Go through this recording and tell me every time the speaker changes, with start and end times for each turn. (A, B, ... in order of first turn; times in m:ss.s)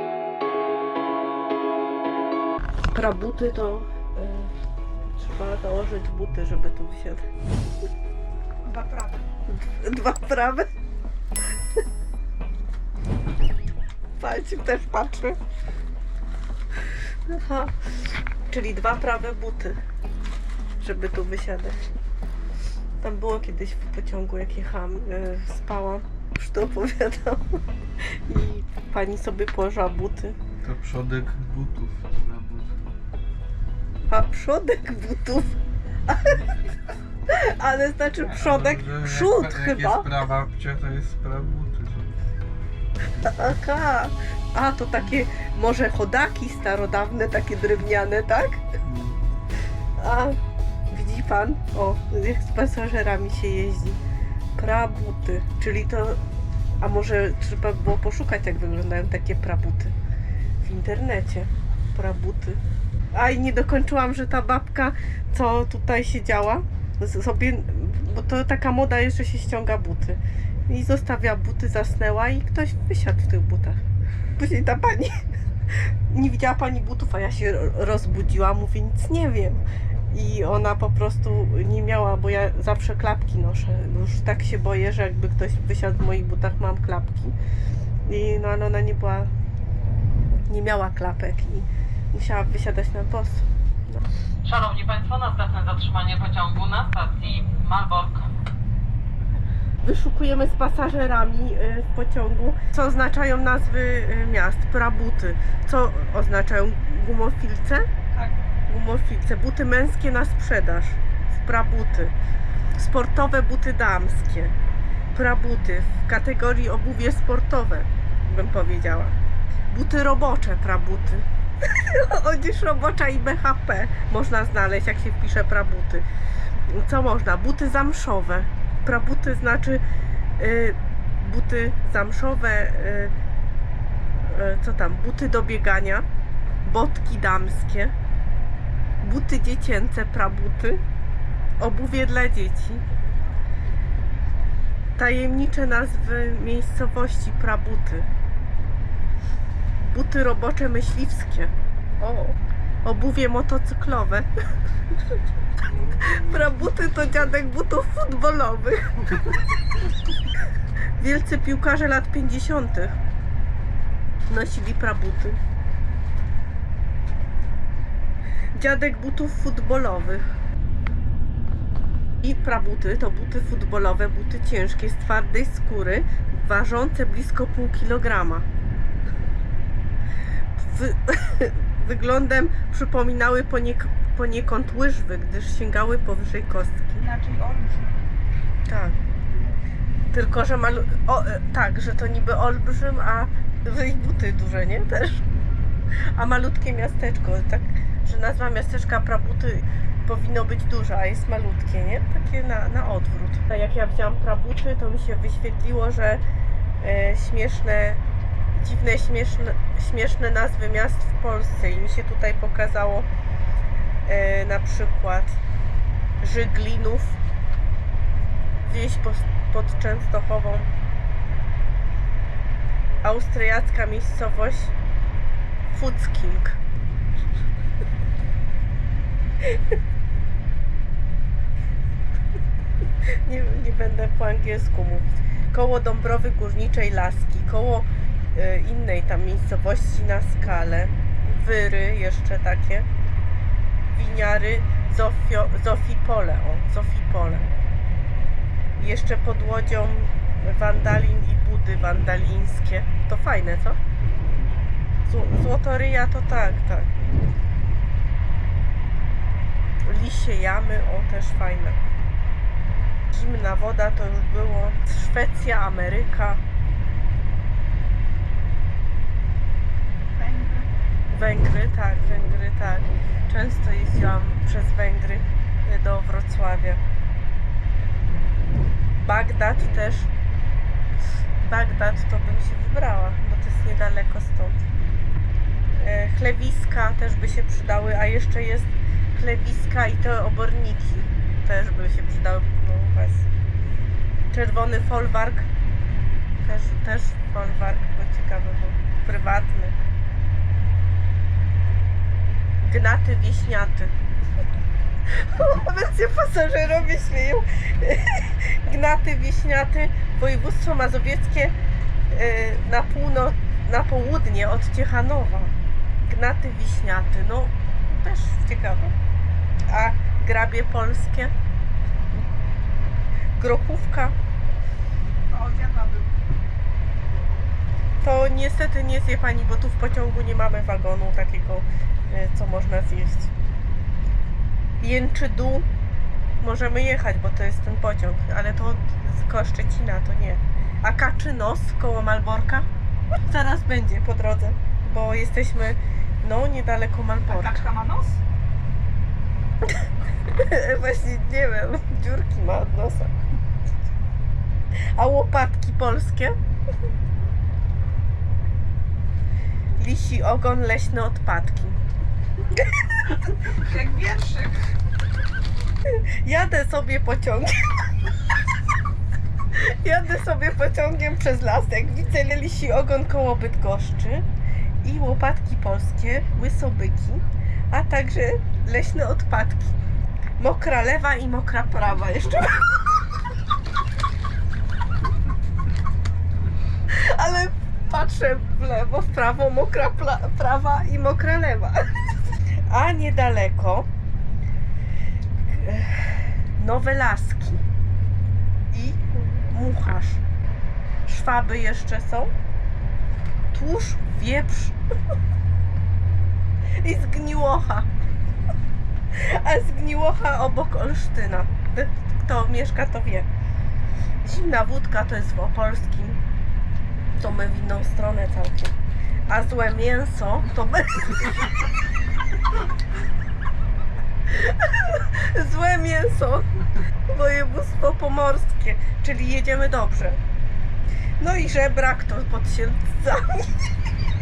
0:02.9-0:04.5 A
0:05.1-0:07.2 A
0:08.6-0:09.2 B
0:09.5-0:10.7 A
0:14.2-0:15.4 A
0:17.3-0:17.8 A
0:18.5-0:19.8 A
0:20.8-0:21.8 A
0:23.0-0:30.4 A
0:30.6-0:32.8 C
0:34.1-0:36.5 A
0:37.3-0:40.2 A
0:38.3-0:42.2 C
0:43.2-0:48.6 A
0:48.8-0:49.2 C
0:50.0-0:50.4 A
0:50.9-0:54.0 A
0:54.6-0:56.2 A
0:56.8-0:59.9 A
1:00.6-1:02.6 A
1:03.1-1:13.8 A
1:14.3-1:15.2 A
1:15.7-1:27.4 A
1:28.0-1:29.3 A
1:30.5-1:34.0 A
1:34.4-1:38.3 D
1:39.8-1:47.9 A
1:48.1-1:48.4 B
1:48.7-1:52.1 A
1:52.7-1:54.5 A
1:55.1-1:59.2 A
1:59.7-2:06.0 A
2:06.7-2:09.8 A
2:10.4-2:13.1 A
2:14.2-2:16.0 A
2:16.6-2:17.9 A
2:19.0-2:20.8 A
2:21.6-2:22.8 A
2:25.0-2:28.1 A
2:29.8-2:34.3 A
2:34.9-2:35.2 A
2:35.8-2:39.4 A
2:41.0-2:43.0 A
2:44.3-2:45.4 A
2:48.5-2:50.2 A
2:52.2-2:58.5 A
3:00.6-3:07.0 A
3:07.0-3:08.0 B
3:08.6-3:09.0 A
3:10.1-3:15.2 A
3:16.1-3:26.2 A
3:26.8-3:28.0 A
3:28.5-3:33.1 A
3:34.0-3:35.4 A
3:36.2-3:37.2 A
3:38.6-3:40.7 A
3:43.0-3:44.7 A
3:45.7-3:46.6 A
3:53.1-4:02.9 A
4:03.8-4:07.5 A
4:08.8-4:13.8 A
4:15.0-4:17.0 A
4:19.8-4:21.8 A
4:23.1-4:26.4 A
4:30.2-4:30.7 B
4:31.1-4:36.8 A
4:39.0-4:40.1 A
4:41.4-4:44.6 A
4:45.7-4:53.3 A
4:54.3-4:55.5 A
4:56.4-4:59.8 A
5:02.6-5:03.9 A
5:05.1-5:11.6 A
5:12.1-5:15.5 A
5:16.0-5:18.9 A
5:19.7-5:21.3 A
5:23.3-5:24.2 A
5:25.3-5:26.1 B
5:28.0-5:33.3 A
5:34.8-5:35.7 A
5:36.4-5:42.7 A
5:43.3-5:47.6 A
5:47.3-5:48.2 B
5:49.6-5:53.2 A
5:54.9-5:56.4 A
5:59.8-6:01.8 A
6:03.4-6:04.7 B
6:05.8-6:07.9 A
6:09.5-6:14.2 A
6:14.8-6:19.8 A
6:20.4-6:22.9 A
6:26.9-6:31.8 A
6:32.7-6:33.9 A
6:35.5-6:37.6 A
6:38.7-6:40.2 A
6:41.0-6:42.3 A
6:43.5-6:44.8 A
6:46.8-6:47.9 A
6:49.1-6:53.3 A
6:54.2-6:56.2 A
6:57.1-6:58.8 A
6:59.3-7:01.7 A
7:04.2-7:10.2 A
7:11.2-7:13.7 A